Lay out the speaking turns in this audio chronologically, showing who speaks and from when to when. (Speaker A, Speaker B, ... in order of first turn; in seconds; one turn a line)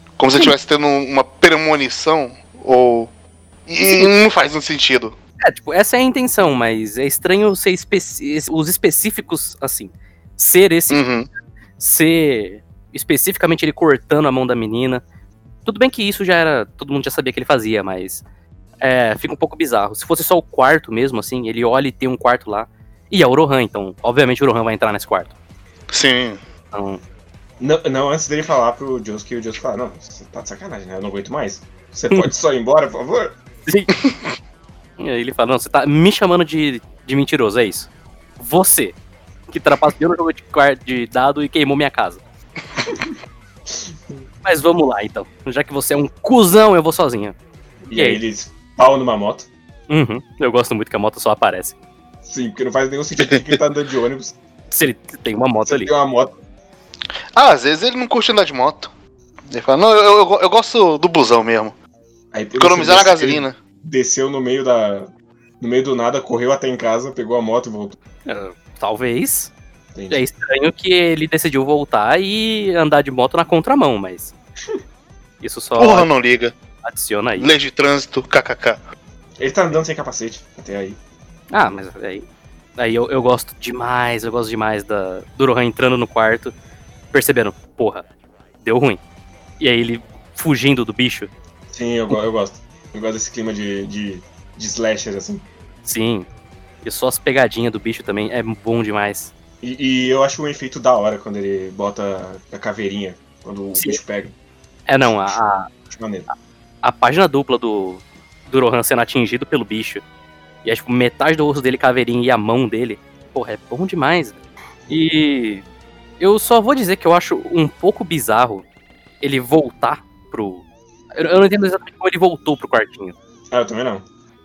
Speaker A: 0.2-3.1
Speaker A: 3.7-5.2
Speaker B: 3.8-4.1
Speaker B: 5.4-11.0
Speaker A: 10.9-11.3
Speaker B: 11.8-15.0
Speaker B: 15.7-18.2
Speaker B: 18.8-25.3
Speaker A: 25.9-26.4
Speaker B: 26.7-27.0
Speaker C: 27.6-33.4
Speaker B: 33.7-33.9
Speaker B: 35.0-39.0
Speaker B: 39.5-42.2
Speaker C: 43.8-44.2
Speaker B: 44.5-47.4
Speaker C: 47.8-49.5
Speaker B: 47.9-48.2
Speaker B: 49.9-51.8
Speaker C: 52.2-54.4
Speaker B: 54.7-55.9
Speaker C: 55.7-56.4
Speaker A: 57.3-58.9
Speaker A: 59.5-61.8
Speaker C: 62.3-68.0
Speaker A: 62.6-63.6
Speaker B: 68.3-69.5
Speaker C: 70.0-70.2
Speaker B: 70.1-74.3
Speaker B: 75.4-76.1
Speaker A: 75.8-76.5
Speaker B: 76.8-77.5
Speaker A: 77.4-78.8
Speaker C: 79.4-81.0
Speaker B: 81.5-82.2
Speaker B: 82.8-86.5
Speaker B: 87.1-88.0
Speaker B: 88.6-89.0
Speaker B: 89.6-91.3
Speaker C: 91.7-95.5
Speaker B: 95.8-96.3
Speaker B: 96.8-99.3
Speaker C: 99.6-104.3
Speaker B: 104.9-105.7
Speaker C: 105.1-105.3
Speaker C: 105.9-106.3
Speaker B: 106.8-110.0
Speaker B: 110.6-114.4
Speaker B: 114.9-115.6
Speaker B: 116.2-118.6
Speaker B: 119.2-123.2
Speaker C: 123.5-124.0